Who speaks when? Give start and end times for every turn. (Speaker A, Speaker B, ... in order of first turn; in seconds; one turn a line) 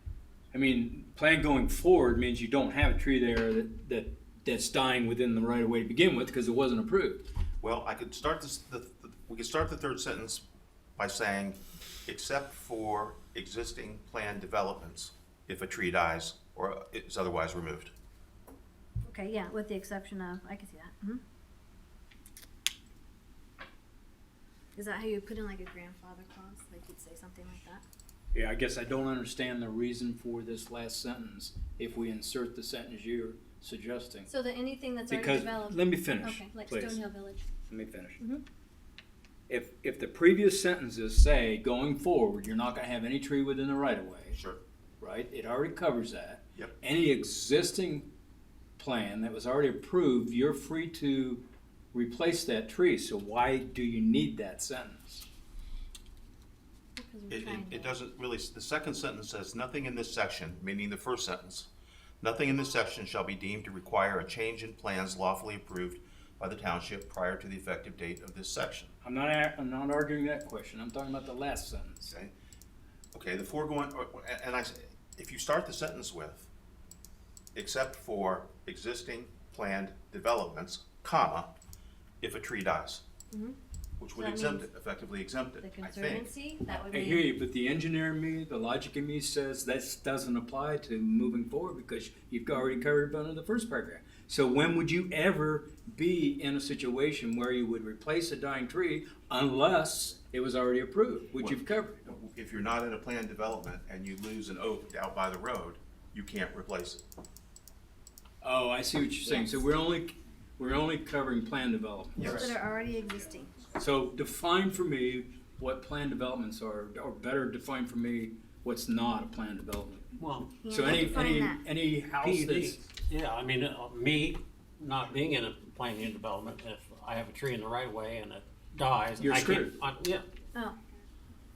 Speaker A: 0.5-7.3
Speaker B: 7.6-10.4
Speaker B: 11.0-17.9
Speaker C: 19.0-21.2
Speaker C: 24.7-27.8
Speaker A: 28.3-34.3
Speaker C: 34.3-37.4
Speaker A: 35.1-37.1
Speaker A: 37.7-38.2
Speaker A: 39.5-44.4
Speaker B: 44.3-44.6
Speaker A: 45.0-48.1
Speaker A: 48.8-55.3
Speaker C: 57.0-57.9
Speaker B: 57.3-61.7
Speaker B: 62.2-68.9
Speaker A: 69.0-72.1
Speaker B: 72.1-72.3
Speaker B: 73.1-76.5
Speaker B: 77.5-81.5
Speaker B: 82.2-83.0
Speaker C: 83.3-83.6
Speaker B: 84.0-86.3
Speaker C: 84.1-84.7
Speaker C: 85.6-87.3
Speaker A: 86.9-102.0
Speaker B: 101.4-107.0
Speaker A: 108.4-112.6
Speaker C: 109.2-109.6
Speaker B: 112.2-112.5
Speaker C: 112.2-113.5
Speaker A: 113.8-122.8
Speaker D: 120.1-120.6
Speaker C: 120.6-121.6
Speaker D: 122.2-130.2
Speaker A: 129.2-129.8